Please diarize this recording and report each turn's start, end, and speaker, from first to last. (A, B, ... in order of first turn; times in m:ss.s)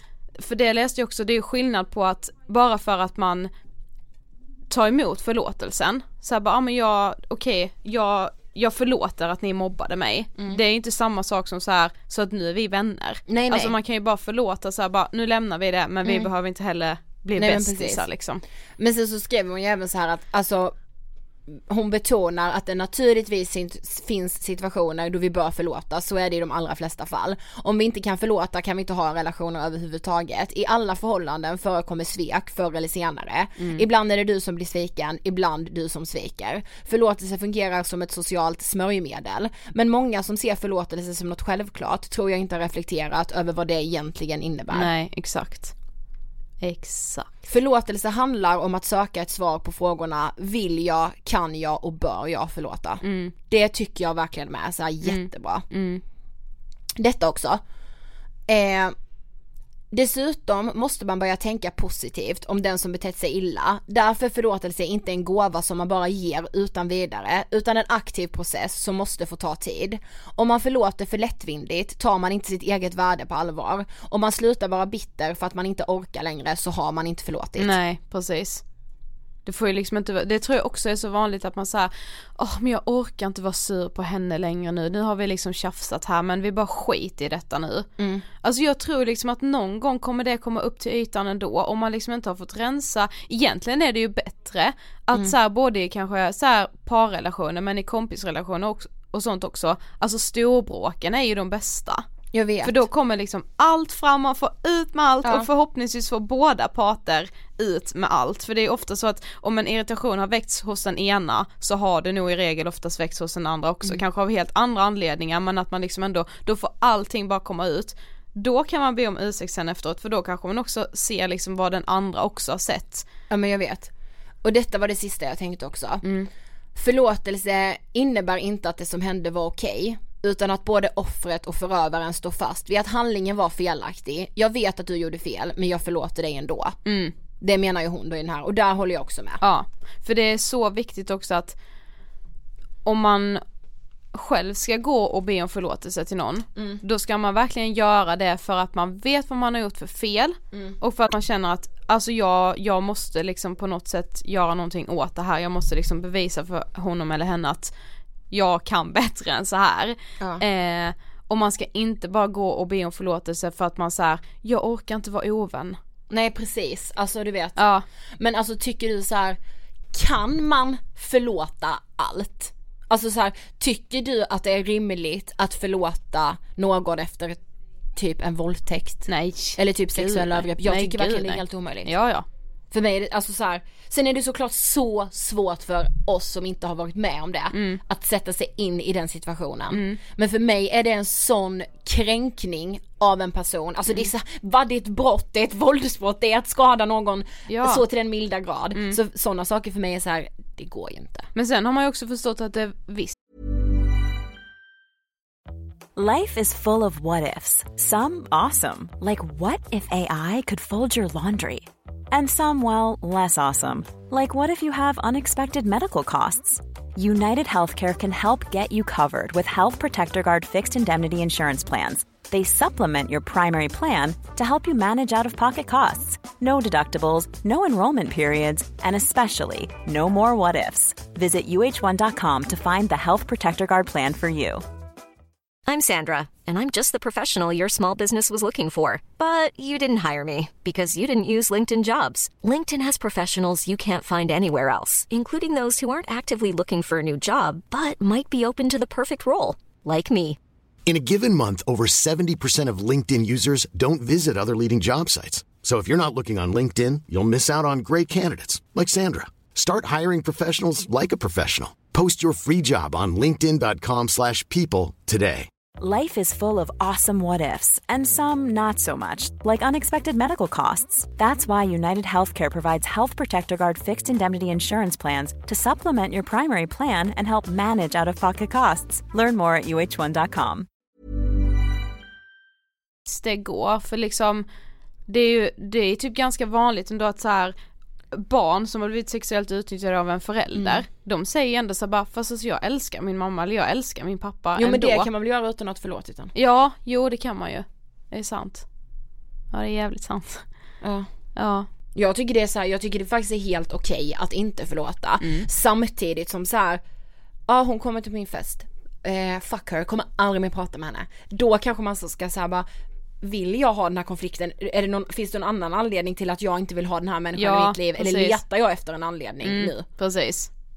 0:00.4-0:03.5 A
0:04.7-0:18.4 A
0:13.3-0:13.8 B
0:17.4-0:18.0 B
0:18.8-0:20.8 B
0:21.5-0:44.9 B
0:33.6-0:33.8 A
0:44.7-0:45.7 A
0:46.6-0:47.3 A
0:47.4-0:55.6 B
0:53.0-0:53.3 A
0:55.0-0:56.0 A
0:57.0-0:57.6 B
0:58.5-0:59.0 B
0:59.9-1:17.7 B
1:17.6-1:18.6 A
1:19.4-1:27.9 A
1:28.0-1:28.2 B
1:28.4-1:42.0 A
1:42.3-1:42.8 B
1:42.6-2:03.1 A
2:03.3-2:03.9 B
2:04.4-2:06.0 B
2:06.0-2:06.3 A
2:06.8-2:16.8 B
2:16.8-2:17.1 A
2:17.4-2:19.4 B
2:19.4-2:21.6 A
2:22.8-2:23.4 A
2:24.1-2:37.7 A
2:26.6-2:26.8 B
2:38.3-2:45.8 A
2:46.1-2:47.6 B
2:47.6-2:47.8 A
2:48.2-2:49.4 B
2:49.9-2:57.4 B
2:58.0-3:01.9 B
2:59.1-3:02.3 A
3:02.7-3:21.3 B
3:07.5-3:07.8 A
3:09.7-3:10.0 A
3:17.5-3:17.8 A
3:18.7-3:19.0 A
3:21.4-3:23.2 A
3:26.0-3:54.6 C
3:55.7-4:10.4 D
4:10.9-4:25.5 E
4:25.8-4:40.7 C
4:43.1-4:44.4 A
4:45.1-4:47.6 A
4:48.1-4:55.1 A
4:50.6-4:50.9 B
4:54.6-4:56.3 B
4:56.4-4:58.7 A
4:59.5-5:00.4 A
5:00.8-5:01.1 B
5:01.4-5:01.7 A
5:02.0-5:06.8 B
5:05.2-5:05.5 A
5:07.5-5:12.7 B
5:13.2-5:19.8 B
5:17.4-5:18.4 A
5:19.4-5:20.5 A